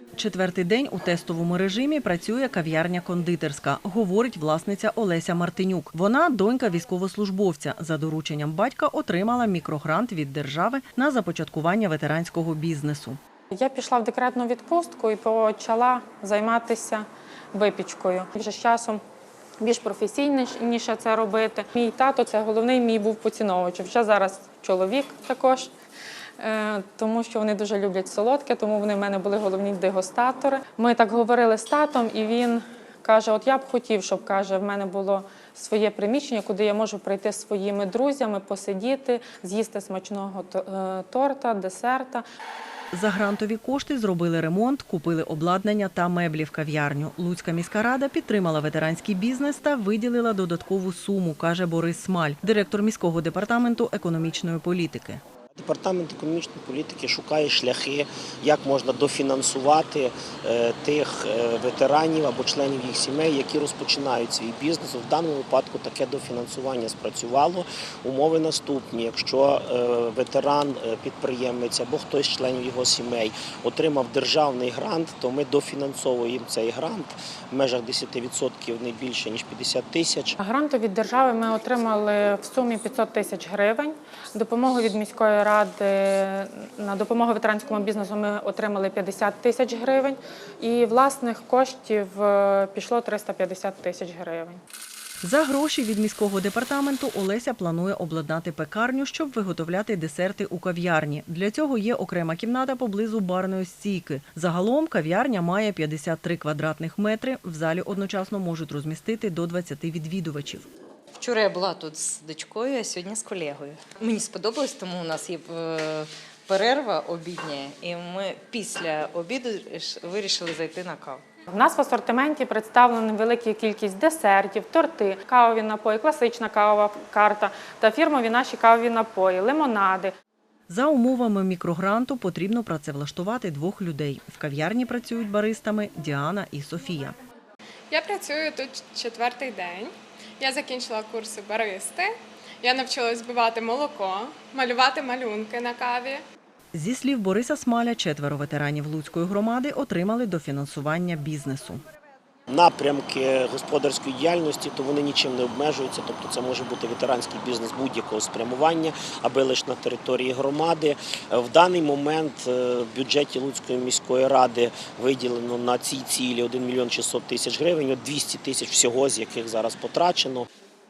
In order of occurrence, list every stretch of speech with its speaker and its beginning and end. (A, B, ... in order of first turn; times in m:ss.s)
0:00.2-0:13.2 A
0:13.5-0:19.0 B
0:19.6-0:25.7 B
0:26.4-0:42.2 B
0:42.9-0:55.2 A
0:55.6-1:20.4 C
1:20.4-1:34.6 B
1:35.2-1:50.7 A
1:51.2-2:01.2 D
2:01.5-2:10.1 B
2:10.7-2:17.2 A
2:17.9-2:22.1 E
2:22.6-2:26.2 E
2:26.7-2:31.8 A
2:32.5-2:50.5 C